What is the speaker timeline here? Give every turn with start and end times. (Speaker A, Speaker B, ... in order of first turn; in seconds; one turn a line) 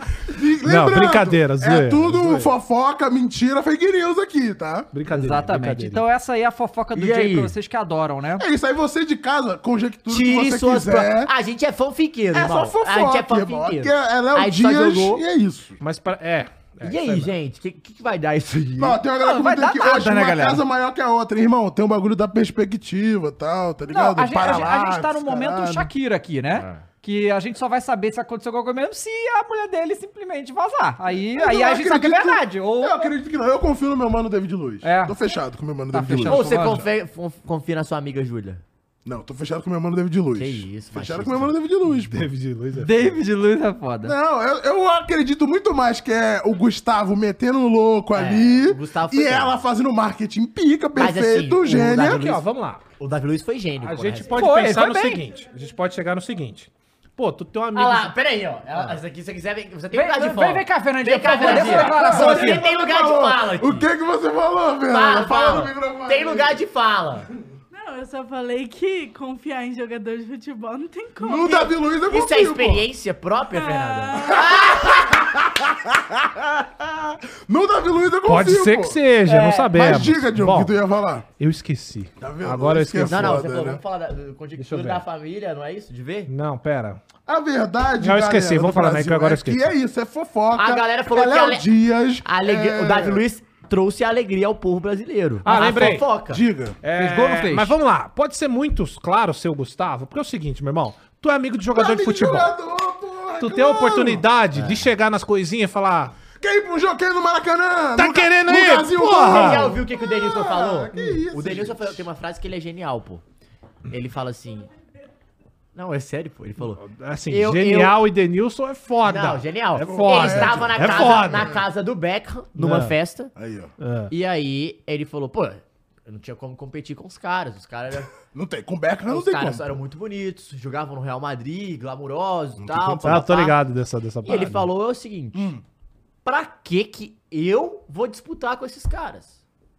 Speaker A: 0.3-4.9
Speaker B: 0.6-2.5
Speaker B: 4.9-6.0
Speaker C: 5.1-8.4
Speaker D: 7.0-7.5
Speaker A: 8.4-11.3
Speaker D: 10.1-15.2
Speaker A: 12.3-15.8
Speaker B: 15.8-17.3
Speaker D: 16.8-19.0
Speaker A: 18.8-25.9
Speaker C: 19.2-20.6
Speaker C: 23.9-33.1
Speaker A: 31.3-36.9
Speaker C: 34.8-35.2
Speaker C: 35.9-36.8
Speaker D: 36.3-38.6
Speaker A: 39.0-42.3
Speaker D: 40.4-41.5
Speaker B: 41.9-43.2
Speaker C: 42.8-44.1
Speaker A: 44.0-52.3
Speaker D: 48.1-49.6
Speaker D: 51.0-52.4
Speaker B: 51.9-52.8
Speaker D: 53.0-54.4
Speaker B: 53.8-58.1
Speaker C: 54.3-55.2
Speaker D: 57.8-63.9
Speaker B: 58.7-59.0
Speaker C: 59.9-62.6
Speaker A: 61.3-66.6
Speaker D: 64.9-67.3
Speaker E: 67.7-71.7
Speaker A: 71.2-72.9
Speaker D: 71.4-75.3
Speaker E: 73.5-74.6
Speaker A: 74.3-76.3
Speaker A: 77.5-79.0
Speaker B: 78.2-80.8
Speaker D: 79.3-79.8
Speaker A: 79.7-81.3
Speaker B: 81.4-83.5
Speaker A: 82.2-83.8
Speaker D: 83.1-86.3
Speaker B: 84.6-85.0
Speaker B: 86.3-87.0
Speaker A: 87.3-93.2
Speaker B: 88.0-89.8
Speaker D: 90.5-91.6
Speaker D: 92.2-96.4
Speaker B: 95.4-96.1
Speaker C: 95.5-95.9
Speaker A: 96.3-96.8
Speaker B: 96.8-102.5
Speaker C: 97.0-97.8
Speaker A: 101.7-104.2
Speaker B: 103.4-106.2
Speaker D: 104.5-104.8
Speaker A: 106.4-112.0
Speaker B: 108.0-109.8
Speaker D: 109.1-113.2
Speaker D: 113.9-114.7
Speaker D: 115.8-118.0
Speaker B: 116.6-121.6
Speaker D: 119.0-123.3
Speaker A: 119.8-121.6
Speaker B: 122.6-123.0
Speaker A: 123.4-123.7
Speaker B: 123.8-124.1
Speaker D: 124.1-128.1
Speaker A: 128.3-129.8
Speaker D: 129.1-133.6
Speaker A: 132.6-133.2
Speaker B: 133.0-134.7
Speaker D: 134.2-135.5
Speaker A: 135.3-135.6
Speaker D: 136.2-139.4